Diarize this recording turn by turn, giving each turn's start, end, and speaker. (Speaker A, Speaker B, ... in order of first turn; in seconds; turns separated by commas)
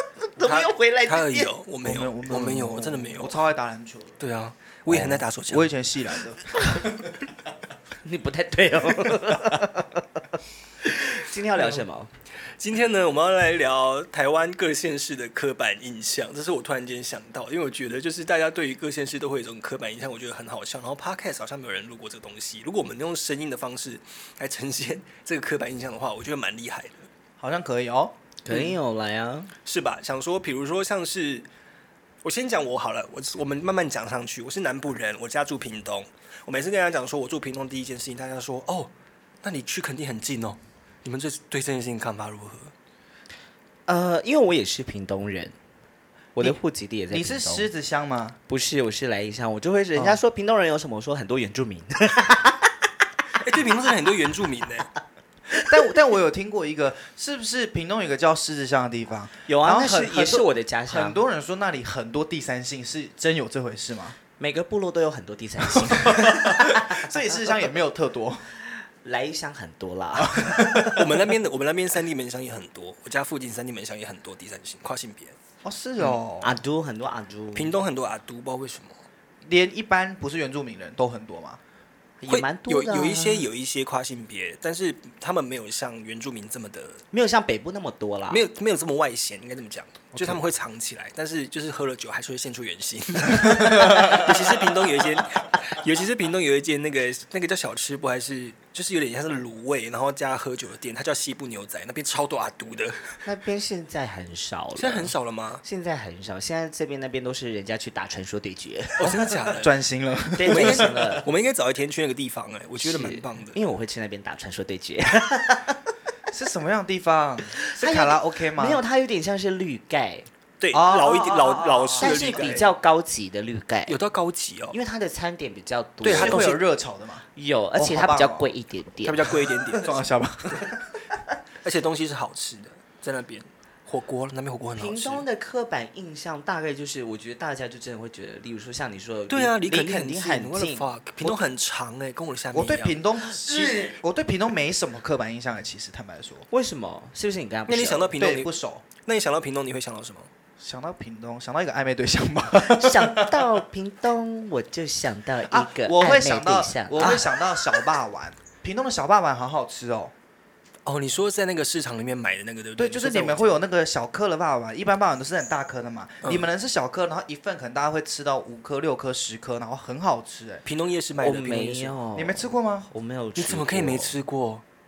Speaker A: 0.3-1.5, Speaker B: 0.4-3.3, Speaker C: 1.8-4.2, Speaker B: 4.2-5.7, Speaker C: 4.9-7.1, Speaker A: 8.0-10.1, Speaker A: 10.8-12.1, Speaker B: 12.5-27.1, Speaker C: 27.4-28.7, Speaker A: 28.4-29.5, Speaker B: 29.6-31.5, Speaker B: 32.2-42.7, Speaker A: 43.9-45.5, Speaker A: 46.4-47.7, Speaker C: 47.1-48.4, Speaker A: 48.5-52.7, Speaker B: 53.4-54.9, Speaker C: 55.5-64.2, Speaker A: 59.5-61.2, Speaker A: 64.4-67.1, Speaker C: 65.8-68.5, Speaker A: 69.0-70.9, Speaker C: 70.1-71.1, Speaker B: 70.8-75.3, Speaker C: 75.6-76.6, Speaker A: 76.4-77.8, Speaker B: 77.5-79.0, Speaker C: 79.4-81.6, Speaker A: 82.2-83.5, Speaker B: 82.3-87.0, Speaker A: 87.1-88.4, Speaker B: 88.3-103.2, Speaker C: 90.1-90.4, Speaker C: 93.5-94.3, Speaker A: 103.2-109.4, Speaker B: 104.8-105.6, Speaker B: 109.0-109.7, Speaker C: 109.6-111.2, Speaker A: 110.3-111.3, Speaker B: 110.5-113.6, Speaker A: 112.8-115.8, Speaker C: 116.3-118.8, Speaker A: 117.6-120.3, Speaker B: 120.6-122.7, Speaker C: 120.7-122.6, Speaker A: 122.0-124.0, Speaker B: 123.9-124.8, Speaker A: 124.7-126.5, Speaker B: 126.0-126.6, Speaker C: 126.1-127.2, Speaker A: 127.3-129.8, Speaker C: 127.8-128.5, Speaker B: 129.0-129.9, Speaker C: 129.8-130.8, Speaker B: 131.6-135.2, Speaker A: 134.8-140.9, Speaker B: 139.3-143.0, Speaker C: 142.5-146.5, Speaker A: 143.3-144.0, Speaker A: 146.5-148.2, Speaker B: 147.7-148.5, Speaker C: 148.2-148.8, Speaker B: 149.0-150.3, Speaker C: 150.6-153.5, Speaker A: 152.6-157.3, Speaker C: 155.5-160.1, Speaker B: 160.8-163.6, Speaker C: 162.8-170.6, Speaker B: 166.2-166.5, Speaker B: 170.6-171.9, Speaker A: 171.2-174.1, Speaker C: 172.1-172.9, Speaker B: 173.3-174.6